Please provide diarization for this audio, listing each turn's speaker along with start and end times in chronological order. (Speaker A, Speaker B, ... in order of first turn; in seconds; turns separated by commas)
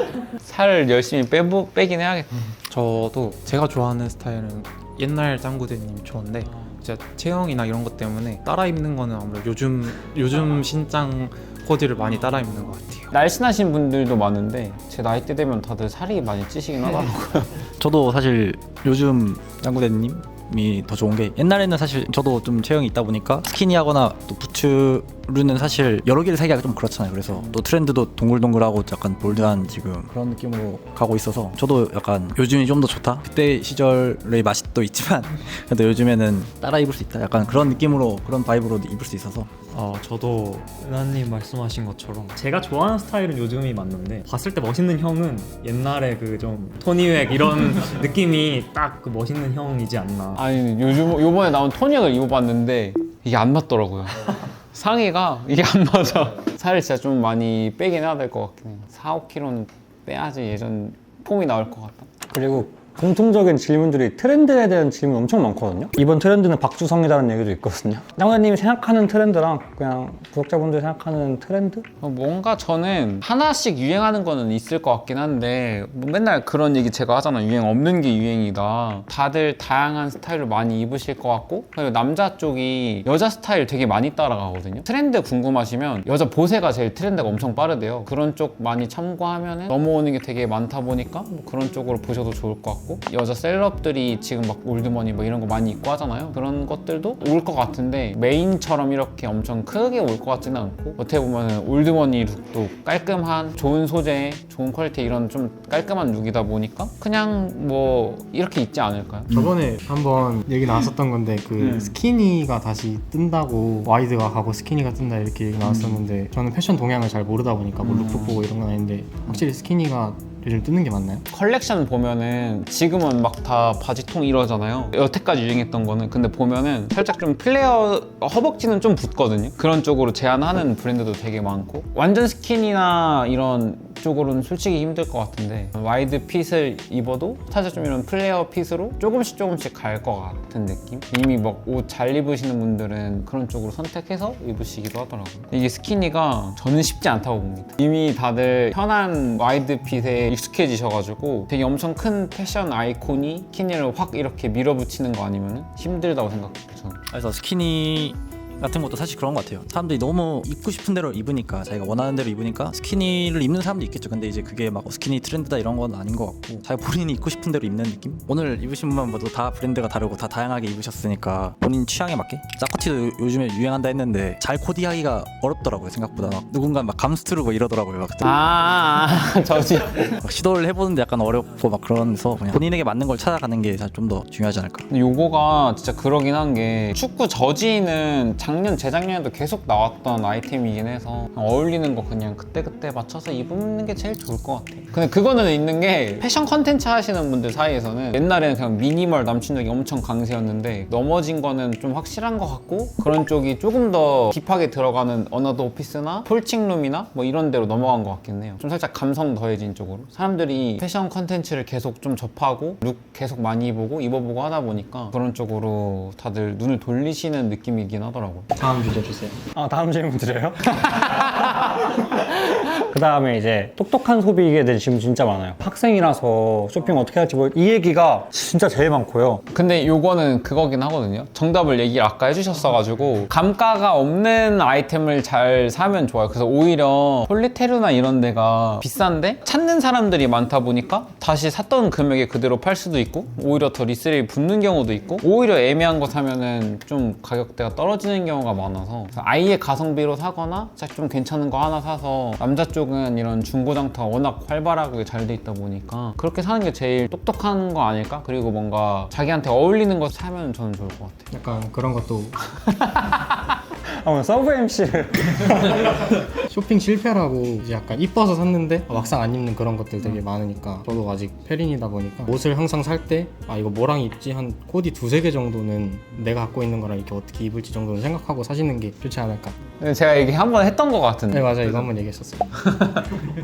Speaker A: 0.4-2.5, Speaker B: 2.7-13.1, Speaker A: 13.1-17.6, Speaker C: 17.8-39.5, Speaker D: 39.7-50.4, Speaker A: 50.4-62.1, Speaker E: 62.3-71.8, Speaker A: 72.0-109.4, Speaker F: 109.3-121.2, Speaker A: 117.8-118.4, Speaker A: 121.3-157.0, Speaker C: 157.1-178.3, Speaker A: 178.2-180.2, Speaker C: 180.2-184.8, Speaker A: 184.9-218.5, Speaker F: 218.6-219.4, Speaker E: 219.5-221.9, Speaker E: 222.8-229.4, Speaker A: 229.5-261.2, Speaker F: 261.3-262.4, Speaker E: 263.9-266.0, Speaker F: 266.5-279.6, Speaker A: 279.8-281.9, Speaker F: 281.3-282.6, Speaker A: 282.7-283.0